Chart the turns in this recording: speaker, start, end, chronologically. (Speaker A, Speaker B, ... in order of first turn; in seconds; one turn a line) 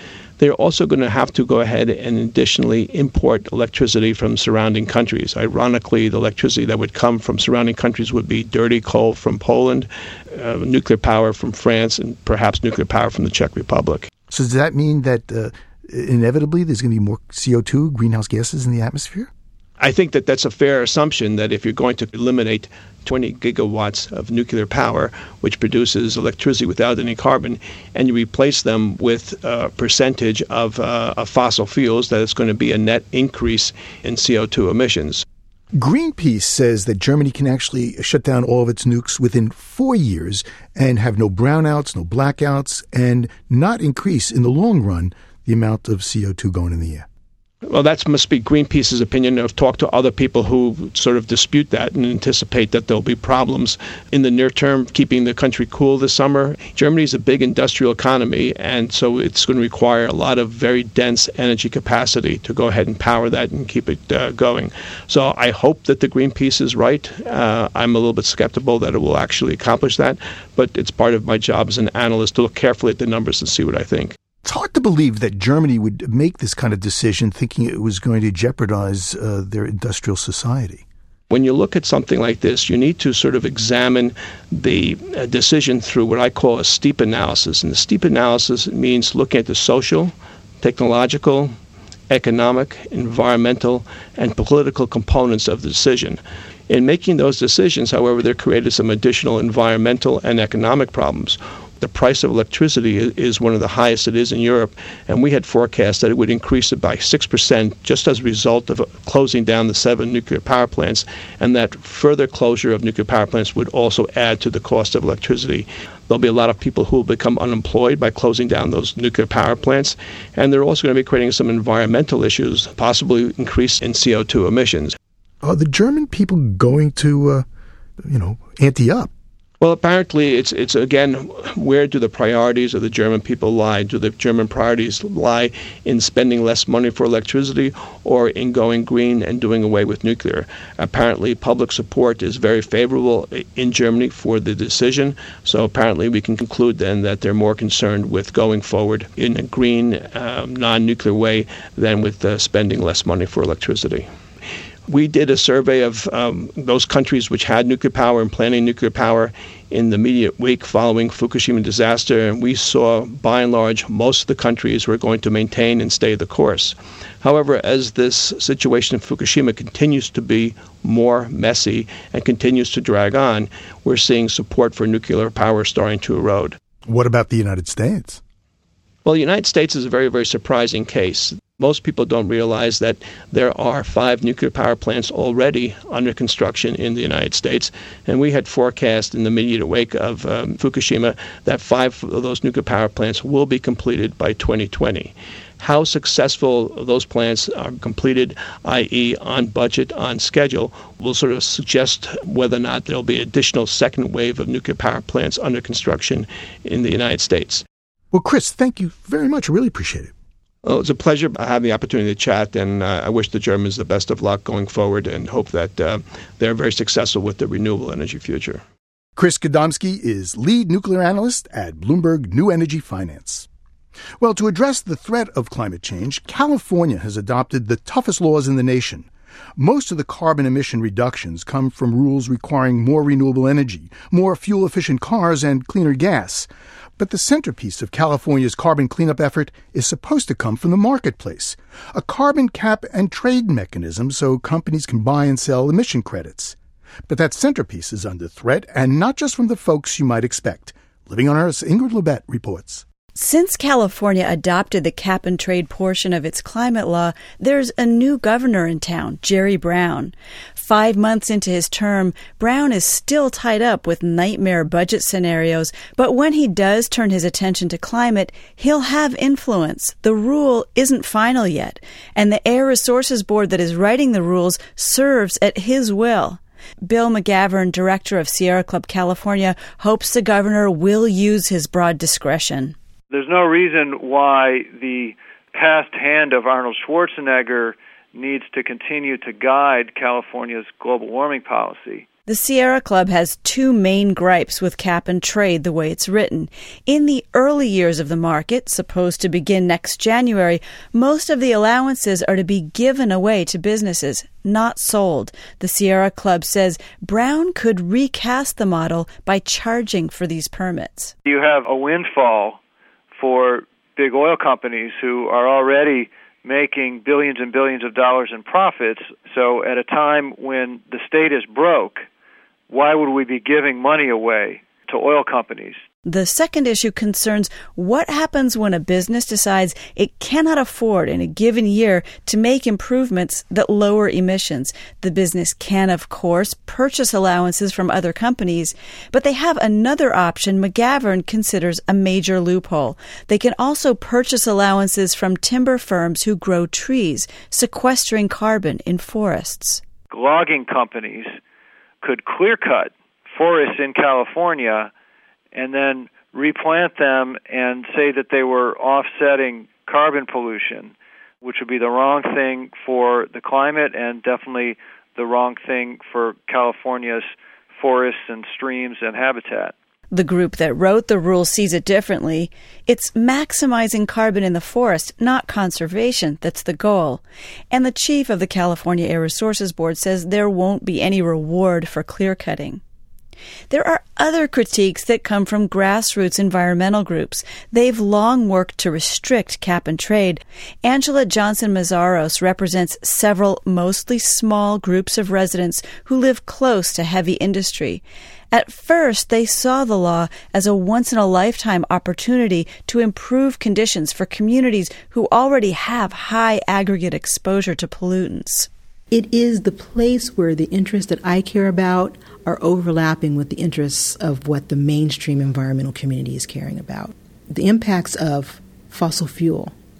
Speaker A: 0.4-14.1
Speaker B: 14.3-19.3
Speaker A: 19.8-35.2
Speaker B: 35.8-47.1
Speaker A: 47.7-74.2
Speaker B: 74.4-80.8
Speaker A: 81.3-91.5
Speaker A: 92.1-125.0
Speaker B: 125.4-127.5
Speaker B: 128.0-129.1
Speaker A: 129.6-154.1
Speaker A: 154.9-176.6
Speaker B: 176.8-178.2
Speaker A: 179.0-207.6
Speaker B: 208.1-210.1
Speaker A: 210.6-218.6
Speaker B: 219.2-223.5
Speaker B: 224.2-246.6
Speaker B: 247.1-252.8
Speaker C: 253.2-282.8
Speaker D: 283.1-292.0
Speaker C: 292.3-311.1
Speaker D: 311.2-312.6
Speaker D: 313.2-322.1
Speaker D: 322.7-325.8
Speaker C: 326.1-349.8
Speaker D: 350.1-351.4
Speaker D: 352.0-354.9
Speaker D: 355.5-369.7
Speaker C: 370.1-382.8
Speaker C: 383.7-408.7
Speaker E: 409.1-419.7